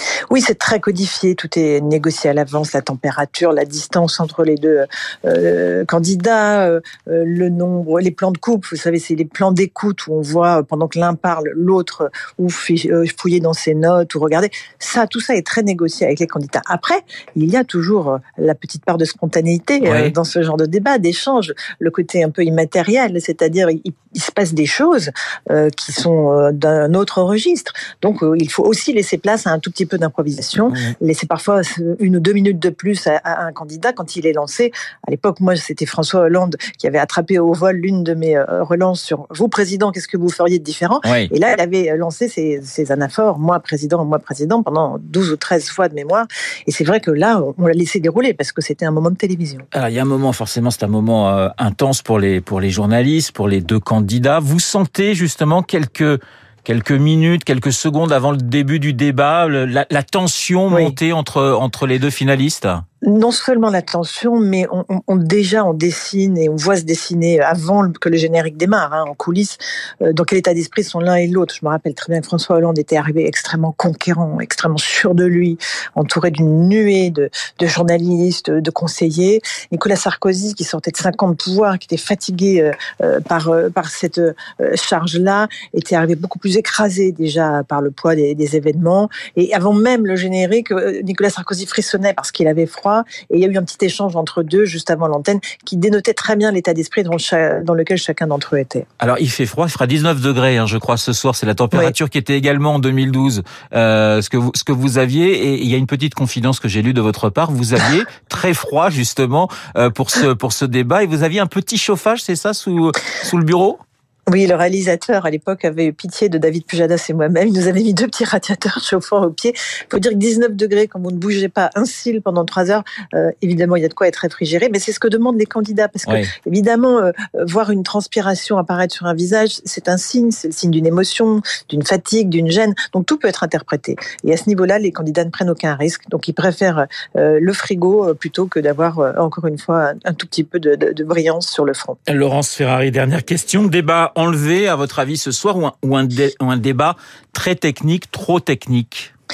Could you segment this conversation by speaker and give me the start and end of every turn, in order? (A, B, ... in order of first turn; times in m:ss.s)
0:00.3-0:49.7 A
0:19.8-0:20.1 B
0:41.0-0:41.3 B
0:49.7-1:02.8 B
1:03.0-1:38.9 A
1:39.0-1:53.8 B
1:54.3-2:22.0 A
2:06.0-2:06.3 B
2:22.1-2:29.1 B